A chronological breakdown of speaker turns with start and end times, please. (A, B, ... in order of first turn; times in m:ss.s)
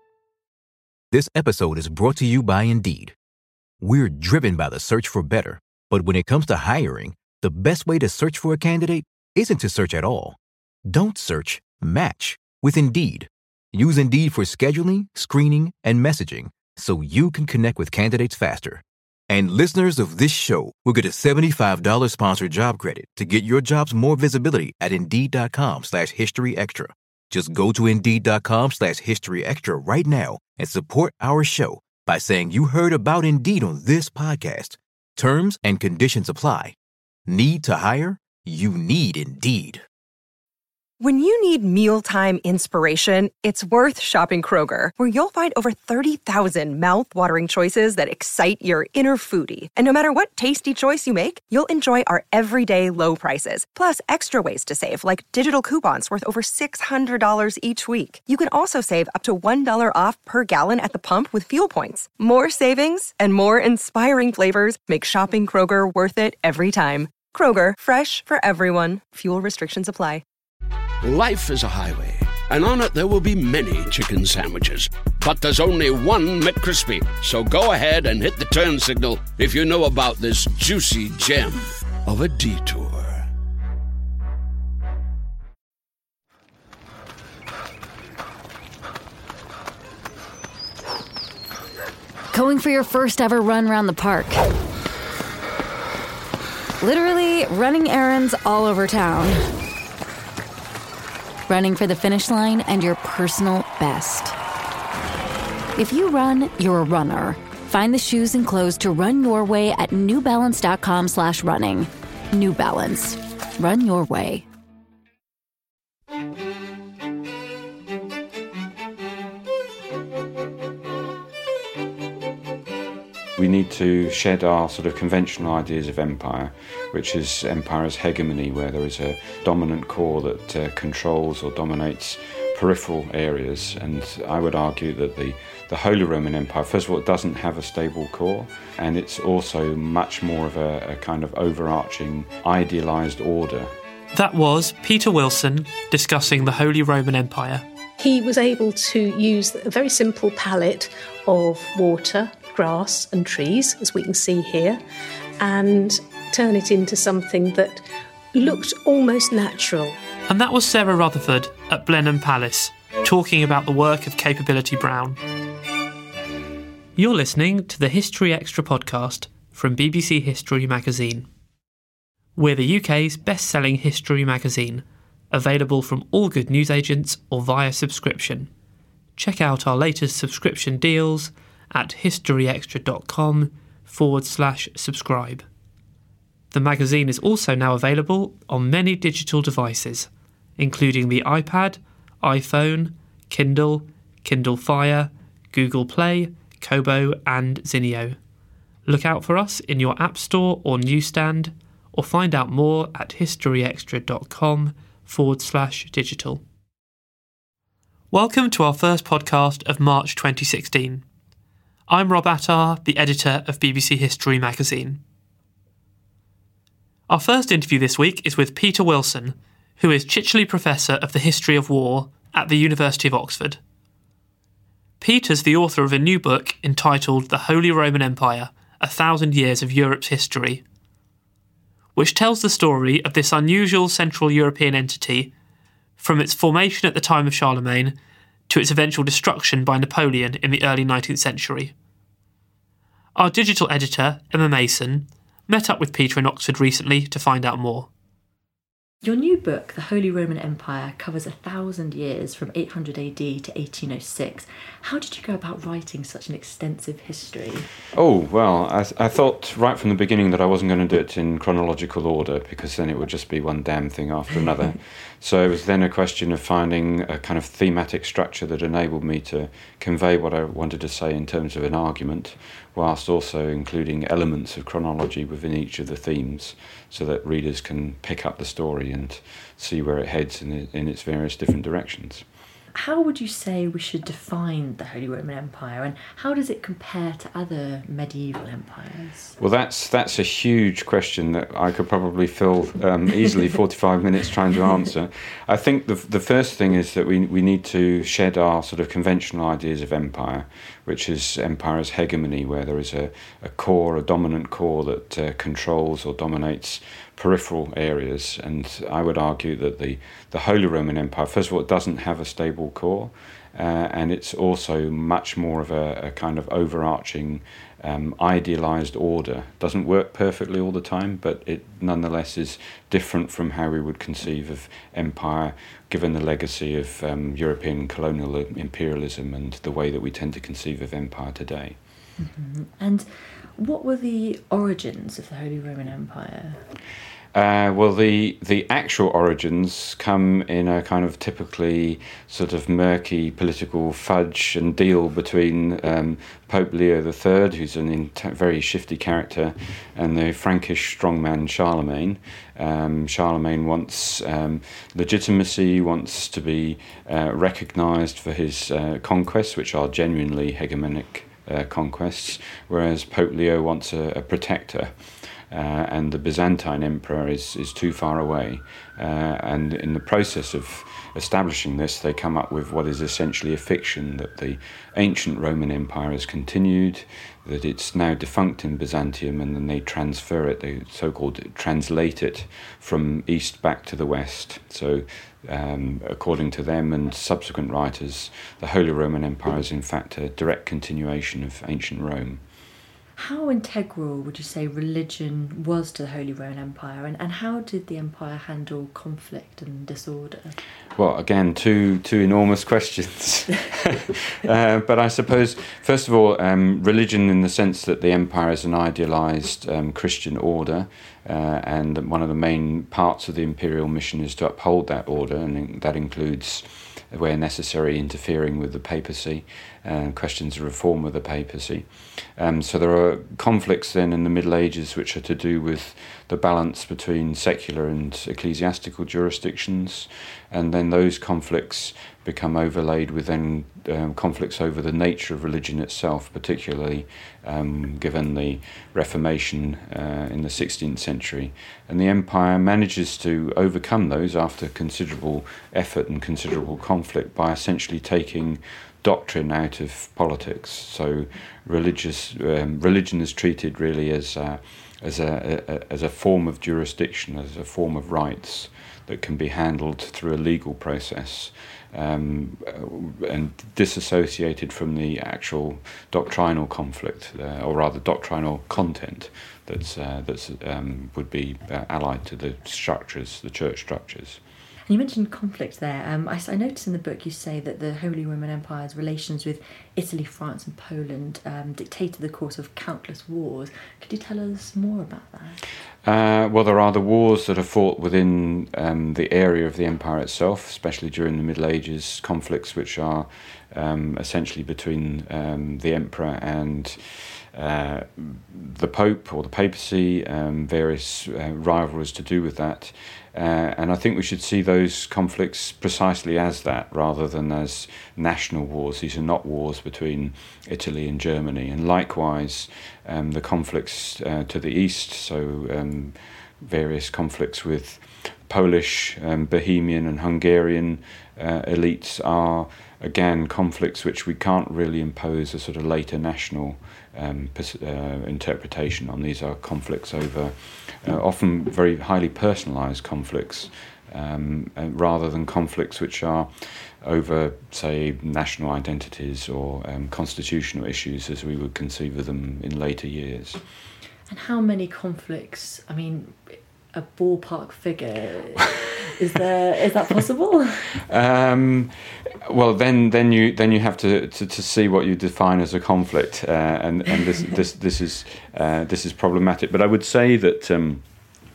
0:01.1-0:03.1 A
0:03.8-0:36.7 A
0:37.3-0:39.8 A
0:41.0-1:10.2 B
1:11.0-1:23.3 C
1:32.3-1:34.5 D
1:36.8-1:39.5 D
1:41.5-1:44.4 D
1:45.8-1:54.4 D
2:03.4-2:23.7 E
2:24.1-2:27.6 F
2:28.0-2:34.8 G
2:35.4-2:39.9 G
2:40.3-2:45.2 F
2:47.0-2:51.3 F
2:52.4-2:58.5 F
2:59.2-3:05.4 F
3:06.5-3:18.2 F
3:18.8-3:26.4 F
3:28.1-3:31.0 F
3:31.9-3:35.0 F
3:37.1-3:43.6 F
3:45.0-3:50.6 F
3:52.0-3:55.3 F
3:56.0-3:58.0 F
3:58.5-4:01.7 F
4:03.1-4:07.9 F
4:09.0-4:17.7 H
4:17.9-4:42.2 E
4:42.7-4:49.4 H
4:49.4-5:31.8 E
5:32.2-5:36.6 H
5:37.3-6:04.9 E
6:05.5-6:32.4 E
6:33.2-6:40.6 H
6:41.0-7:54.4 E
7:54.9-8:05.6 H
8:06.0-8:56.5 E
8:57.0-9:03.6 E
9:04.3-9:11.0 H
9:11.1-9:21.0 E